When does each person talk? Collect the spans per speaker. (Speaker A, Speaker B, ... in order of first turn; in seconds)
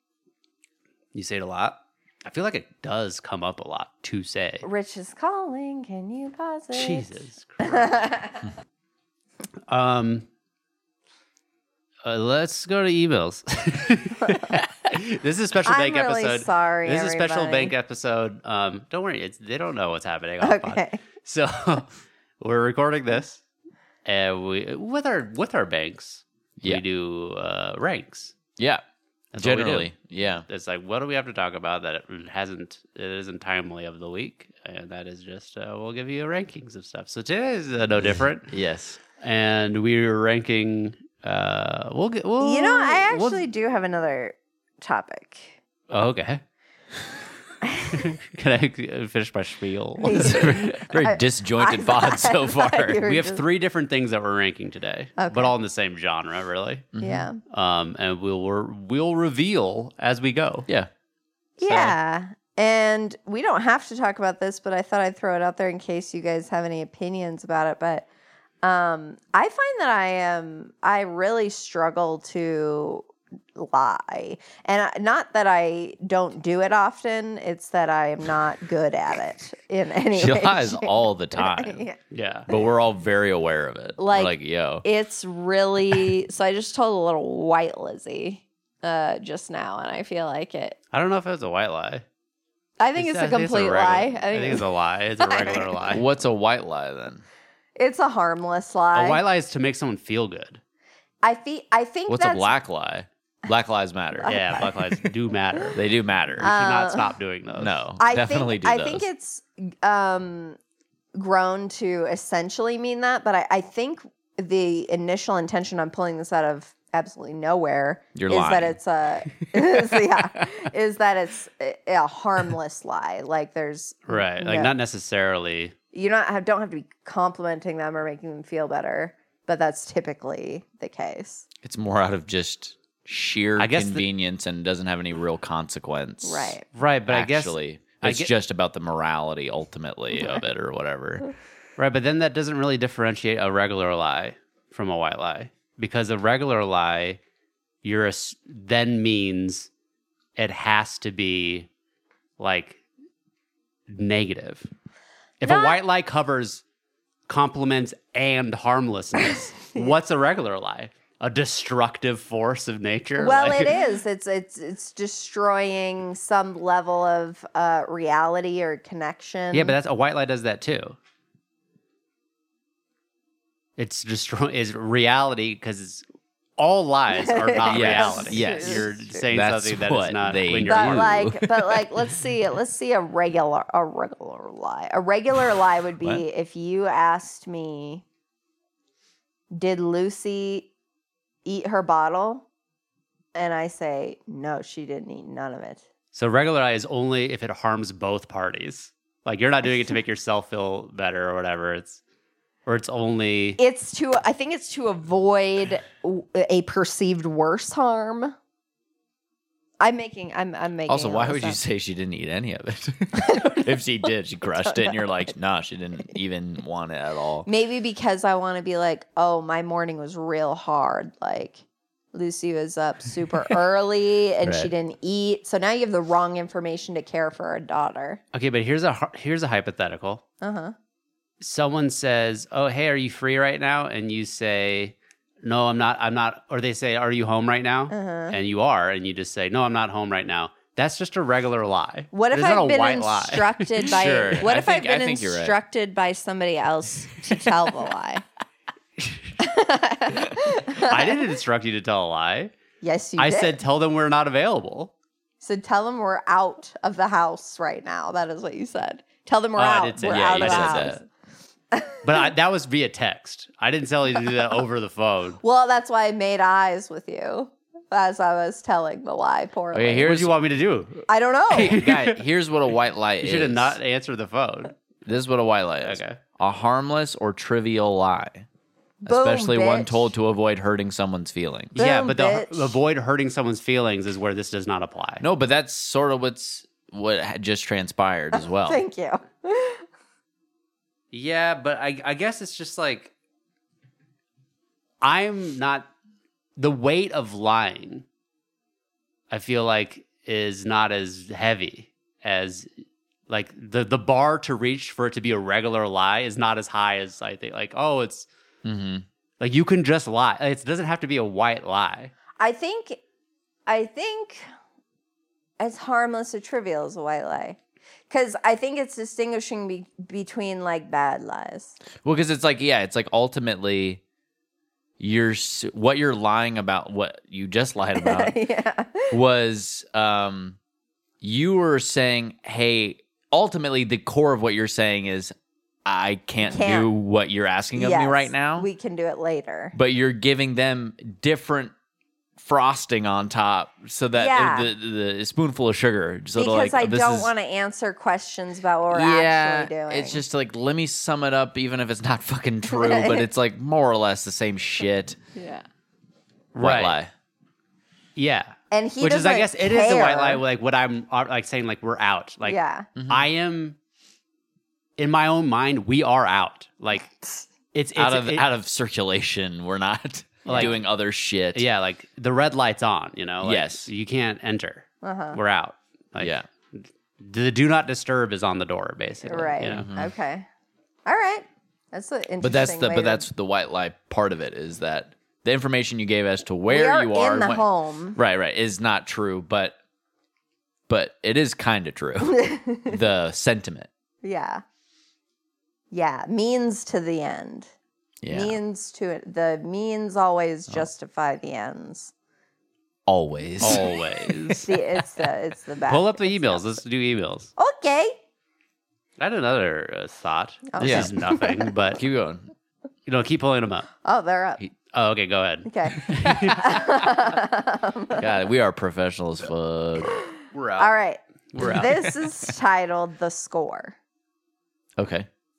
Speaker A: 1.1-4.7, 6.7-8.0, 9.7-10.2, 12.0-23.4, 24.0-28.3, 29.3-29.9, 30.5-38.5, 39.2-43.4, 45.9-46.4, 47.9-50.5, 53.0-56.9, 57.5-60.6, 61.6-61.9, 82.1-82.5, 90.9-92.0, 93.0-96.1, 98.9-100.6, 104.2-105.8, 106.4-107.8, 124.1-125.7, 133.6-134.0, 136.7-138.3, 141.8-147.2, 147.8-149.7, 150.3-151.7, 152.4-152.8, 153.9-154.7, 155.4-156.6, 157.3-163.8, 169.5-170.9, 173.8-176.0, 176.6-181.1, 196.1-202.0, 202.7-203.6, 228.3-230.2, 231.4-243.9, 250.8-252.5, 253.2-254.9, 259.6-261.0, 262.0-265.4, 270.0-272.2, 273.2-274.8, 275.8-276.2, 281.8-285.2, 291.1-293.1, 295.0-295.9, 296.6-298.0, 299.3-302.7, 303.3-308.3, 309.4-312.1, 356.5-357.0, 358.1-363.8, 365.0-367.1, 367.7-368.4, 370.4-370.8, 371.5-379.9, 403.6-404.7, 405.9-407.5, 409.2-412.0, 413.1-413.9, 414.9-416.8, 421.5-421.9
Speaker B: 4.6-7.1, 7.6-8.4, 15.7-17.7, 20.4-21.0, 42.4-45.6, 47.6-48.0, 50.0-53.4, 55.2-55.5, 57.0-57.4, 61.6-68.1, 68.6-82.0, 84.0-90.8, 92.8-94.6, 95.2-96.0, 97.8-99.2, 101.2-102.5, 104.2-104.8, 106.4-107.1, 108.0-110.6, 111.1-124.7, 125.9-131.4, 136.2-136.6, 155.4-155.8, 159.7-159.9, 163.2-169.8, 177.2-179.3, 180.6-188.0, 189.5-190.7, 191.4-192.5, 193.3-195.8, 203.6-208.3, 209.8-211.6, 213.3-213.6, 217.4-228.2, 230.4-230.7, 237.9-238.4, 242.1-248.2, 249.4-251.2, 252.8-253.6, 255.4-261.0, 261.7-262.2, 265.4-270.1, 271.1-271.8, 279.0-280.1, 281.8-282.8, 288.3-289.8, 312.4-313.0, 313.7-314.4, 315.6-317.6, 318.1-321.8, 327.9-329.1, 336.5-336.9, 337.8-339.8, 344.1-344.7, 346.4-350.2, 352.7-353.3, 355.3-355.6, 358.7-360.4, 362.4-362.9, 370.4-370.8, 375.0-375.4, 379.2-380.5, 381.1-383.2, 386.7-388.2, 392.3-393.0, 394.2-394.6, 395.9-397.7, 398.3-402.1, 404.6-406.6, 407.6-408.2, 410.7-411.3, 414.0-414.6, 415.6-418.2, 420.8-424.0
Speaker C: 28.6-28.8, 29.4-30.4, 37.9-39.0, 50.1-53.0, 56.9-57.3, 80.1-81.8, 82.5-84.8, 95.9-97.2, 102.1-104.7, 105.7-106.5, 107.6-109.0, 118.1-118.8, 131.6-141.3, 177.7-181.9, 210.9-217.5, 224.4-224.7, 243.8-245.6, 260.1-261.0, 269.7-270.3, 271.5-273.8, 275.0-278.4, 279.1-281.8, 285.2-288.8, 308.6-309.0, 322.0-324.0, 325.0-328.4, 329.1-330.6, 331.2-335.3, 335.9-338.7, 339.7-341.7, 342.4-347.3, 348.9-355.2, 356.6-357.1, 362.9-363.3, 367.9-371.6, 373.4-373.9, 376.2-376.5, 379.6-380.1, 382.4-389.7, 390.9-393.9, 398.2-398.6, 403.1-404.7, 410.8-411.1, 411.9-412.5, 416.2-416.6, 418.2-420.9, 421.6-422.5, 425.0-425.3